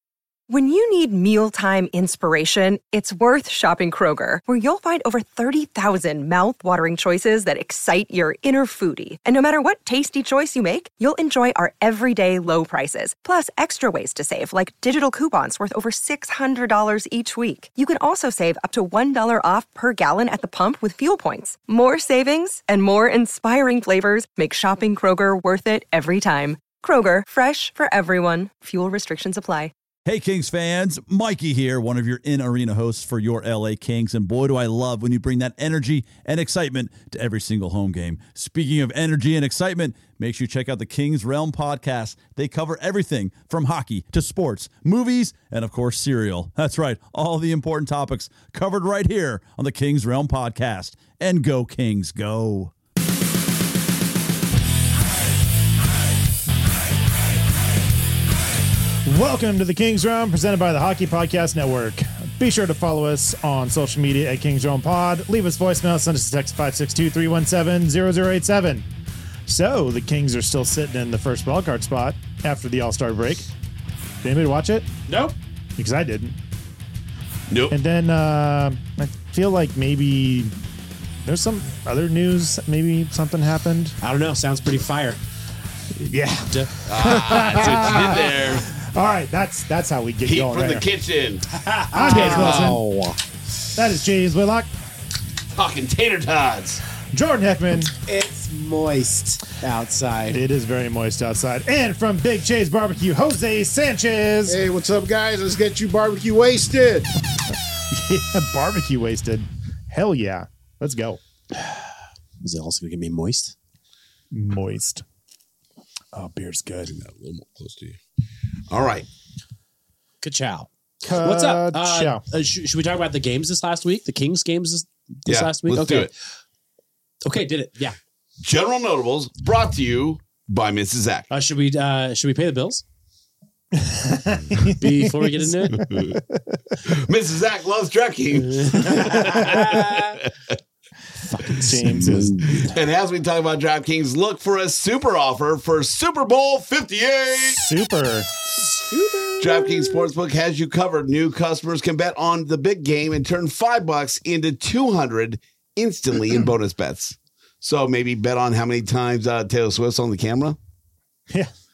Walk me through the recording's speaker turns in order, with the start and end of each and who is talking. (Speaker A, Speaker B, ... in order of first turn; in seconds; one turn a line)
Speaker A: 0.5-29.7
Speaker B: 30.1-52.7
Speaker C: 59.0-68.9
Speaker C: 69.5-73.5
Speaker C: 74.2-74.9
Speaker D: 75.1-75.4
Speaker C: 75.8-76.4
Speaker E: 77.5-77.8
Speaker C: 77.7-80.5
Speaker C: 81.2-84.0
Speaker D: 84.0-85.2
Speaker C: 86.0-90.8
Speaker E: 86.8-88.7
Speaker E: 90.2-91.5
Speaker D: 91.5-93.2
Speaker C: 91.9-92.8
Speaker E: 92.2-92.6
Speaker C: 93.8-94.7
Speaker E: 95.5-96.8
Speaker C: 97.1-97.9
Speaker D: 98.1-100.4
Speaker C: 100.3-104.6
Speaker F: 104.5-107.1
Speaker C: 107.9-111.2
Speaker D: 111.5-111.9
Speaker D: 112.4-113.5
Speaker C: 114.3-115.0
Speaker C: 116.1-117.0
Speaker E: 116.9-118.0
Speaker E: 118.7-119.1
Speaker D: 120.2-126.1
Speaker C: 121.0-122.2
Speaker E: 125.3-126.1
Speaker D: 127.2-128.0
Speaker E: 128.4-131.3
Speaker D: 131.3-132.8
Speaker C: 133.7-136.6
Speaker D: 134.6-135.8
Speaker E: 135.7-136.2
Speaker E: 136.8-140.6
Speaker D: 138.3-140.2
Speaker D: 141.3-142.8
Speaker C: 141.6-142.6
Speaker E: 141.8-147.8
Speaker C: 147.4-148.3
Speaker D: 148.6-150.1
Speaker E: 149.4-160.6